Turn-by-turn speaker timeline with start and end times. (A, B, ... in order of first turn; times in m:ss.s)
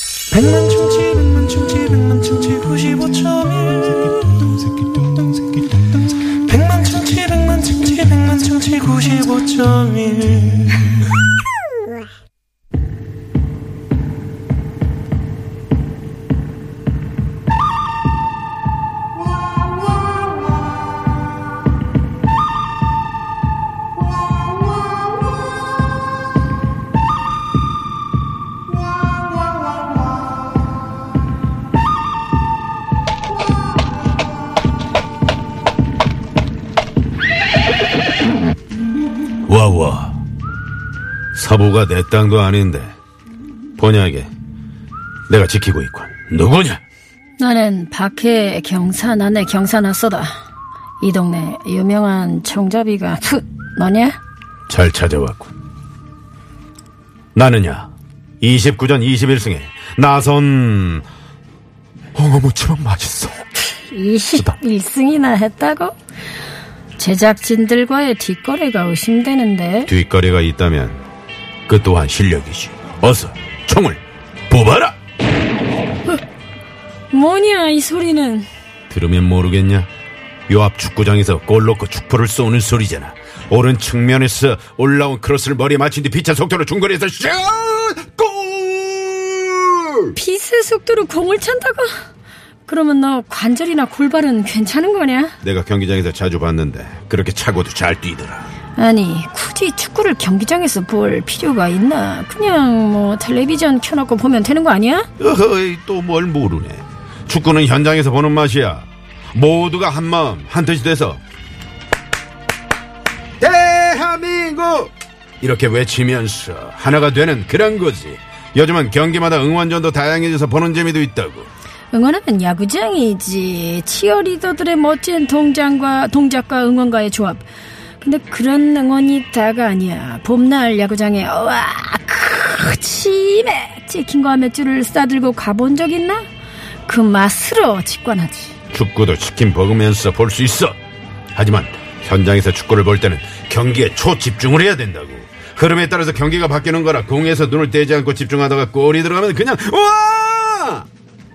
0:00.3-0:10.9 A
0:39.5-0:40.2 B
0:41.3-0:42.9 B
0:43.8-0:44.3 B
0:45.3-0:46.8 B
0:47.4-0:50.3 C
0:51.0-0:54.2 C
0:54.7-0:55.5 B
0:57.3-1:01.0 B
1:02.2-1:03.5 B
1:03.9-1:06.0 C
1:07.0-1:09.9 C
1:09.9-1:11.0 B
1:11.7-1:15.0 B
1:17.1-1:18.5 C
1:18.9-1:19.9 B
1:20.5-1:30.2 B
1:30.2-1:31.9 C
1:32.7-1:35.4 C
1:35.4-1:38.5 B
1:38.8-1:45.1 C
1:45.2-1:51.2 B
1:53.4-2:01.5 B
2:01.9-2:07.4 C
2:08.0-2:16.2 C
2:16.9-2:18.5 C
2:18.7-2:20.8 B
2:21.3-2:30.8 B